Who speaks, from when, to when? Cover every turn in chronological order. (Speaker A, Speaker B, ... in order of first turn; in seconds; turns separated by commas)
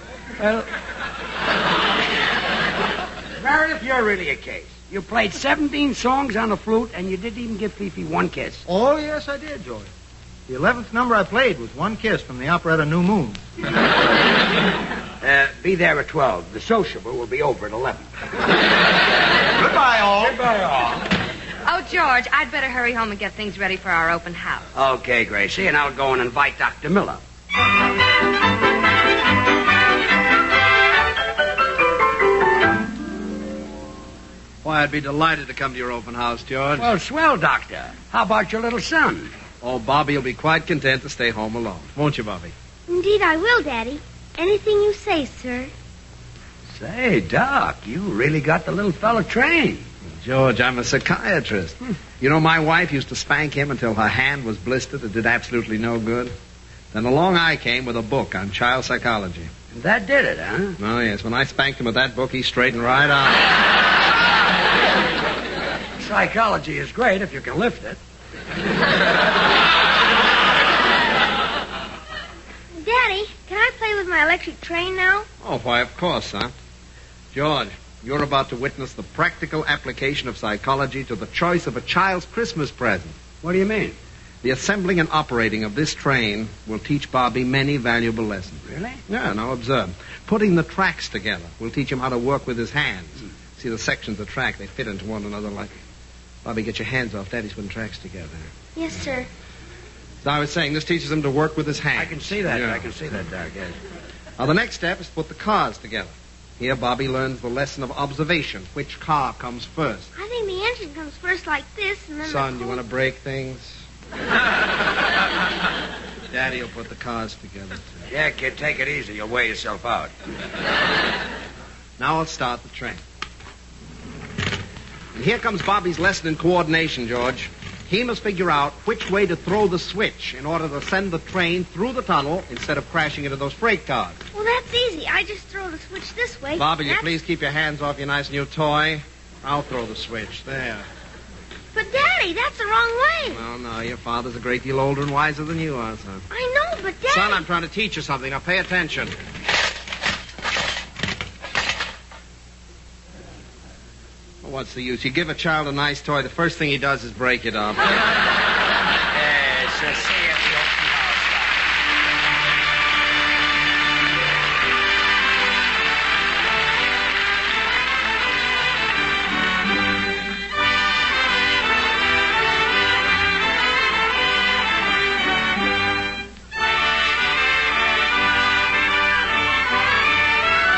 Speaker A: 0.4-0.7, Speaker A: 3.4-8.6, Speaker B: 8.7-9.9, Speaker B: 10.5-13.4, Speaker A: 15.2-18.1, Speaker B: 19.6-20.4, Speaker A: 20.2-21.1, Speaker C: 21.6-24.7, Speaker A: 24.7-27.2, Speaker D: 34.6-36.9, Speaker A: 36.8-39.3, Speaker D: 39.6-42.5, Speaker E: 42.9-45.7, Speaker A: 46.7-49.9, Speaker D: 50.1-56.3, Speaker D: 56.9-59.5, Speaker A: 59.7-60.8, Speaker D: 60.8-63.5, Speaker A: 66.0-68.0, Speaker E: 72.7-75.3, Speaker D: 75.4-76.5, Speaker D: 77.3-83.2, Speaker A: 83.4-84.0, Speaker D: 84.4-95.7, Speaker A: 88.6-89.0, Speaker D: 96.4-98.5, Speaker E: 98.7-99.3, Speaker D: 100.2-102.9, Speaker A: 101.9-103.8, Speaker D: 104.4-110.1, Speaker E: 110.1-112.8, Speaker D: 112.2-113.8, Speaker D: 116.3-118.0, Speaker A: 118.1-120.1, Speaker D: 122.0-123.0, Speaker D: 125.1-134.2, Speaker E: 134.3-137.2, Speaker D: 136.5-140.9, Speaker E: 141.7-143.4, Speaker D: 143.2-146.2, Speaker E: 146.3-147.4, Speaker D: 147.1-149.1, Speaker D: 154.4-157.9, Speaker A: 159.1-161.7